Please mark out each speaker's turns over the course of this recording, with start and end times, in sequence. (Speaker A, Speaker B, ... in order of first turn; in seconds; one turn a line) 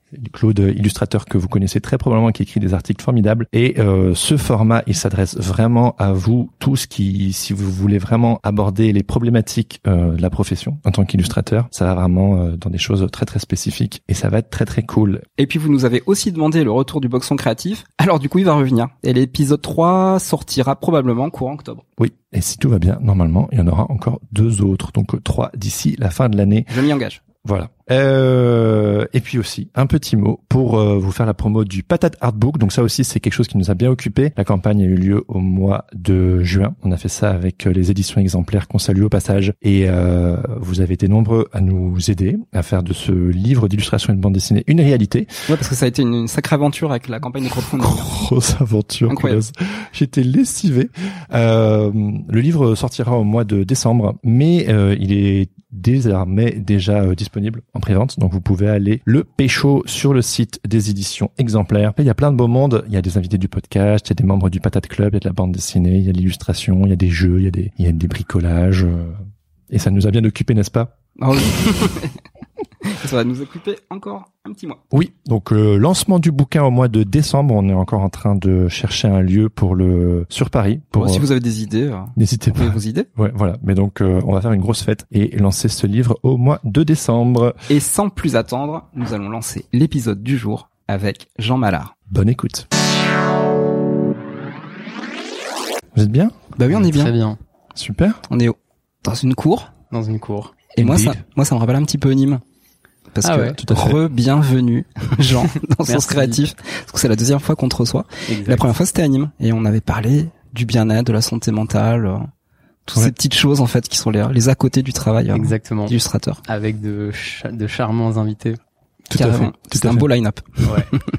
Speaker A: 0.1-15.3
Speaker B: 15.4-21.8
Speaker A: 22.0-26.7
Speaker B: 26.7-27.2
Speaker A: 27.4-45.3
Speaker B: 45.5-48.1
Speaker A: 47.7-69.2
Speaker B: 49.1-49.4
Speaker A: 69.7-70.9
Speaker B: 71.2-72.2
Speaker B: 72.8-74.8
Speaker A: 74.9-81.3
Speaker B: 81.0-83.1
Speaker A: 82.2-87.6
Speaker B: 87.7-91.9
Speaker A: 92.1-92.7
Speaker A: 96.0-96.4
Speaker B: 96.6-97.1
Speaker C: 96.7-97.4
Speaker A: 97.8-98.2
Speaker B: 98.3-99.7
Speaker C: 99.9-100.7
Speaker B: 100.8-102.4
Speaker A: 100.8-101.2
Speaker B: 103.1-112.3
Speaker C: 103.2-103.6
Speaker A: 103.6-104.0
Speaker C: 105.9-106.4
Speaker C: 108.3-108.7
Speaker B: 112.9-116.4
Speaker C: 115.3-118.6
Speaker A: 119.1-120.1
Speaker B: 119.2-121.0
Speaker C: 120.7-120.9